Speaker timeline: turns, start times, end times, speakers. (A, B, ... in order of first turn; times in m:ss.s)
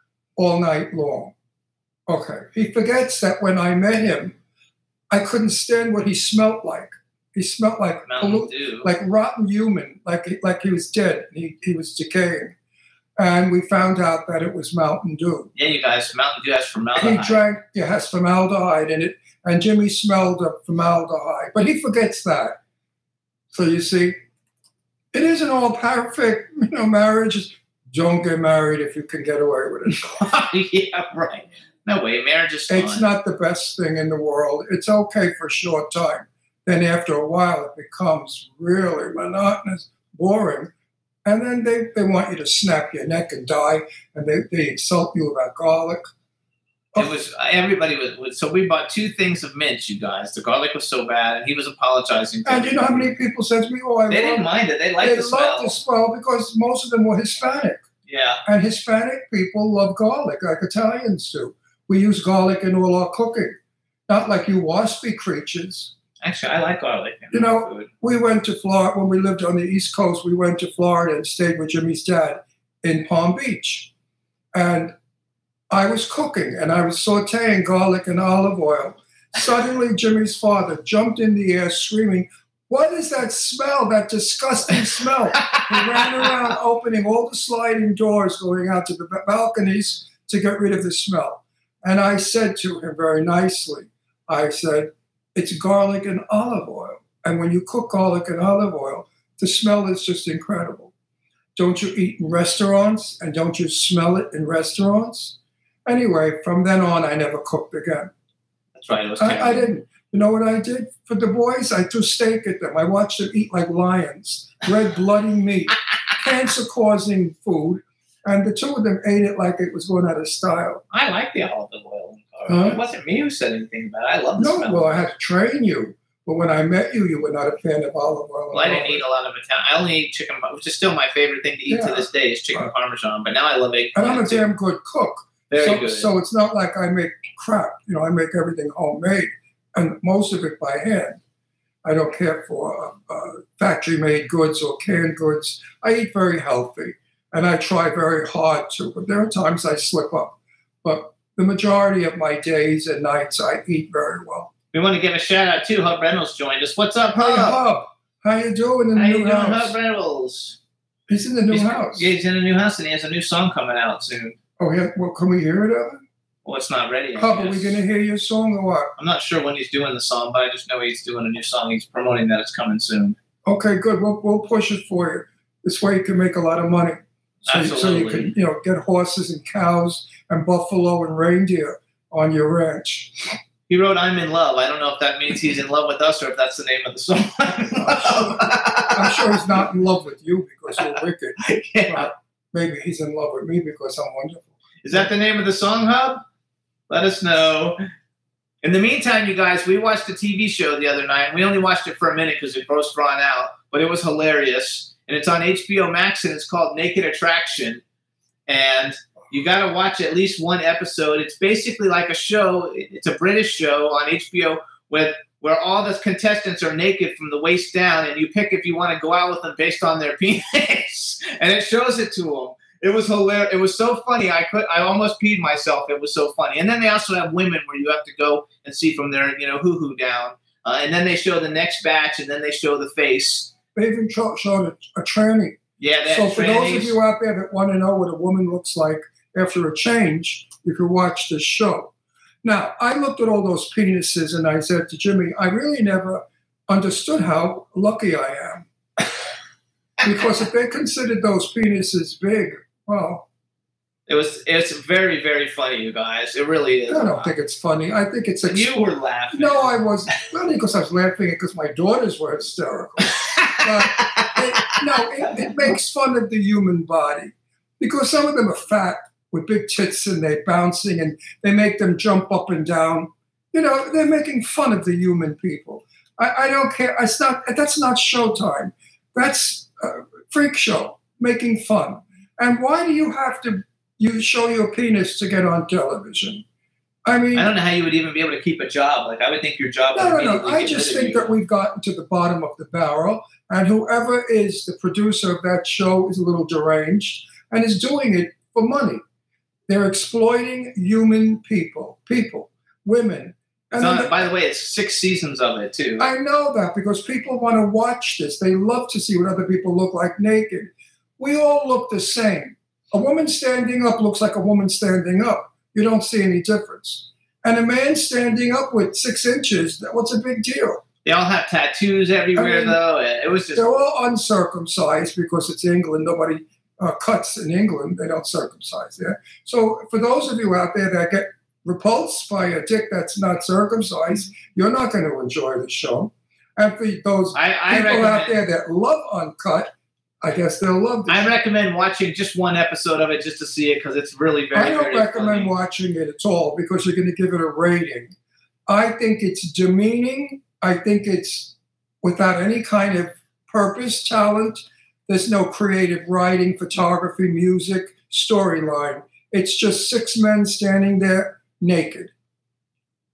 0:00.4-0:01.3 A
0:02.1-0:04.3 A
0:05.1-0:12.5 A
0:08.1-0:08.9 B
0:13.2-0:15.5 A
0:15.6-0:17.4 B
0:16.9-0:22.6 A
0:23.5-0:24.2 A
0:25.1-0:30.2 A
0:30.0-0:33.1 B
0:32.7-0:40.7 A
0:41.2-0:46.1 A
0:47.0-0:53.1 B
0:52.4-0:54.5 A
0:54.1-0:55.7 B
0:55.0-0:57.8 A
0:58.1-0:58.4 B
0:58.4-1:03.6 A
1:04.1-1:05.9 A
1:06.2-1:07.9 B
1:07.3-1:13.9 A
1:14.5-1:15.0 A
1:15.7-1:40.9 A
1:25.5-1:26.2 B
1:41.6-1:48.1 A
1:48.8-1:49.7 B
1:49.2-2:00.8 A
2:00.9-2:04.9 B
2:02.5-2:02.8 A
2:04.4-2:09.0 A
2:08.5-2:14.4 B
2:11.7-2:12.7 A
2:14.0-2:21.2 A
2:15.5-2:16.1 B
2:21.8-2:34.5 A
2:34.7-2:37.6 B
2:37.2-2:39.7 A
2:39.0-2:40.6 B
2:41.1-2:42.1 A
2:41.5-2:44.4 B
2:44.6-2:46.0 A
2:46.4-2:47.8 B
2:47.1-2:48.9 A
2:49.0-2:53.2 B
2:53.4-3:03.4 A
2:57.5-2:58.3 B
3:03.7-3:09.5 B
3:07.8-3:14.5 A
3:10.8-3:12.1 B
3:14.8-3:16.2 B
3:16.9-3:17.8 B
3:18.6-3:27.8 B
3:28.5-3:53.5 B
3:53.7-4:01.9 A
3:55.8-3:57.0 B
4:02.4-4:08.7 A
4:10.0-4:13.2 A
4:14.1-4:17.3 B
4:16.9-4:46.4 A
4:18.4-4:19.7 B
4:23.0-4:24.7 B
4:47.0-4:47.5 A
4:47.3-4:51.2 B
4:49.9-4:59.0 A
4:59.7-5:04.2 A
5:03.8-5:06.0 B
5:06.0-5:20.8 A
5:21.0-5:23.7 B
5:22.4-5:22.8 A
5:23.5-5:41.3 A
5:37.3-5:38.4 B
5:41.1-5:45.5 B
5:44.5-5:48.1 A
5:48.7-6:02.1 A